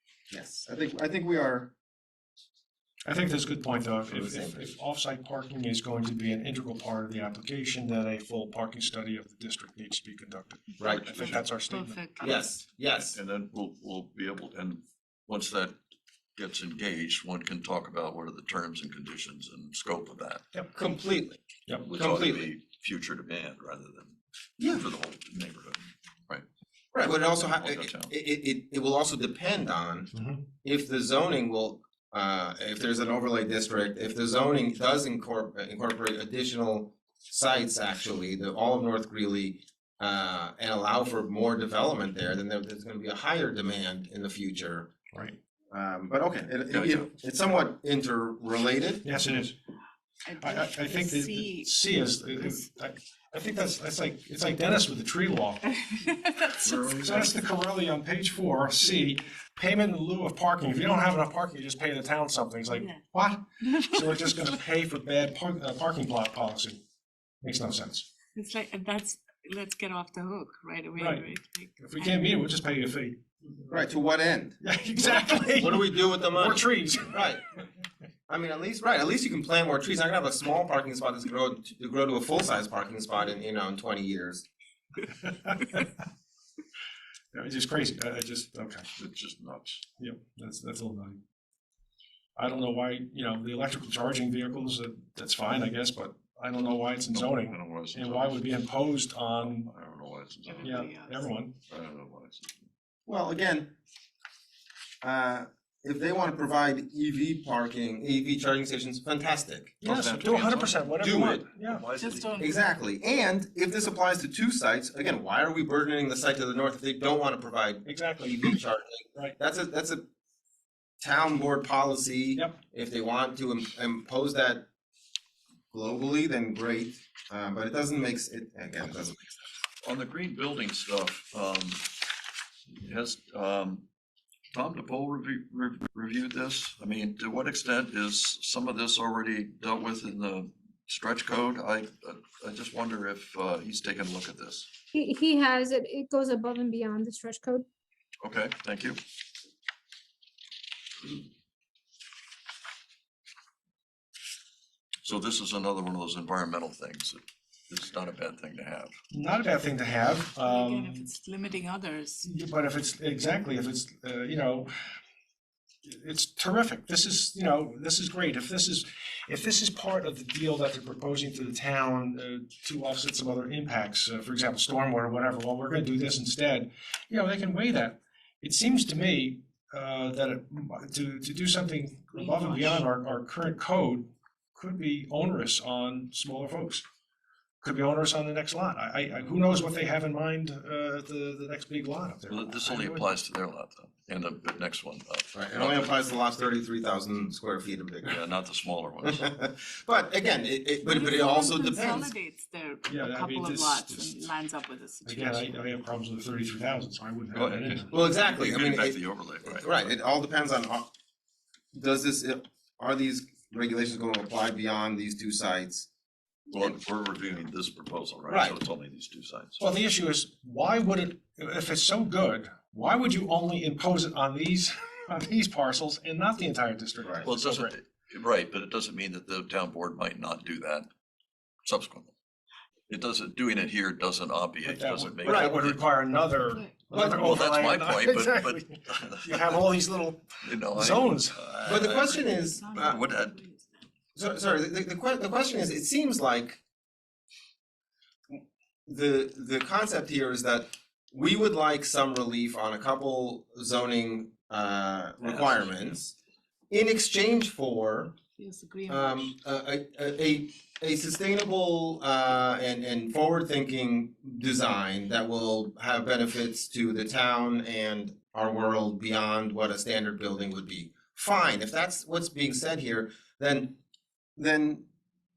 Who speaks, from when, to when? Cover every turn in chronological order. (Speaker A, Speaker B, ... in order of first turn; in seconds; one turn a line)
Speaker A: 0.3-1.7
Speaker B: 3.0-12.0
Speaker A: 4.1-4.7
Speaker A: 10.8-11.4
Speaker C: 11.1-12.4
Speaker A: 12.2-13.2
Speaker D: 13.1-15.7
Speaker D: 16.4-20.4
Speaker A: 20.7-22.5
Speaker D: 21.8-26.4
Speaker A: 26.9-30.1
Speaker D: 27.1-28.1
Speaker B: 30.1-30.4
Speaker A: 30.6-44.9
Speaker B: 45.1-45.4
Speaker A: 45.7-49.0
Speaker D: 46.7-47.1
Speaker B: 49.0-49.5
Speaker C: 50.2-51.8
Speaker B: 50.4-55.7
Speaker C: 55.8-57.3
Speaker D: 56.6-57.3
Speaker B: 56.9-66.8
Speaker C: 62.7-63.0
Speaker C: 63.6-64.5
Speaker B: 67.4-68.1
Speaker C: 68.3-72.2
Speaker B: 71.0-71.2
Speaker B: 71.8-73.8
Speaker A: 73.7-77.4
Speaker B: 74.6-77.3
Speaker A: 78.3-84.4
Speaker B: 85.2-85.8
Speaker B: 87.3-88.9
Speaker D: 89.0-89.8
Speaker B: 90.0-91.2
Speaker B: 92.4-99.7
Speaker D: 97.1-98.5
Speaker D: 99.4-101.0
Speaker C: 100.5-101.3
Speaker B: 100.6-101.5
Speaker D: 101.7-102.7
Speaker A: 103.1-103.7
Speaker A: 105.0-120.0
Speaker B: 109.8-111.8
Speaker D: 109.9-110.5
Speaker D: 111.7-112.3
Speaker C: 112.0-112.5
Speaker B: 117.8-118.5
Speaker A: 121.0-124.6
Speaker A: 125.7-129.2
Speaker D: 129.8-131.9
Speaker D: 132.7-133.8
Speaker D: 134.5-144.7
Speaker E: 144.9-147.6
Speaker D: 148.2-149.0
Speaker D: 155.0-158.9
Speaker B: 159.1-161.1
Speaker C: 160.4-162.3
Speaker B: 162.2-164.7
Speaker B: 165.8-186.8
Speaker C: 182.1-182.8
Speaker B: 187.6-193.1
Speaker D: 192.3-195.9
Speaker A: 195.3-198.2
Speaker D: 198.0-199.2
Speaker A: 199.0-202.1
Speaker C: 200.8-205.5
Speaker B: 202.9-204.3
Speaker B: 205.0-207.9
Speaker A: 207.3-210.9
Speaker D: 208.0-209.9
Speaker A: 211.7-215.9
Speaker D: 216.5-219.6
Speaker A: 218.3-218.6
Speaker B: 219.6-227.7
Speaker D: 227.2-230.9
Speaker D: 231.6-232.1
Speaker D: 232.9-235.8
Speaker B: 234.6-241.4
Speaker A: 235.2-235.6
Speaker A: 236.9-237.3
Speaker D: 237.0-239.6
Speaker D: 240.4-243.4
Speaker A: 241.7-243.0
Speaker C: 242.1-243.8
Speaker A: 244.1-246.6
Speaker A: 248.9-256.1
Speaker D: 255.2-255.9
Speaker A: 256.7-258.1
Speaker C: 258.4-259.3
Speaker A: 258.9-273.8
Speaker A: 274.4-274.9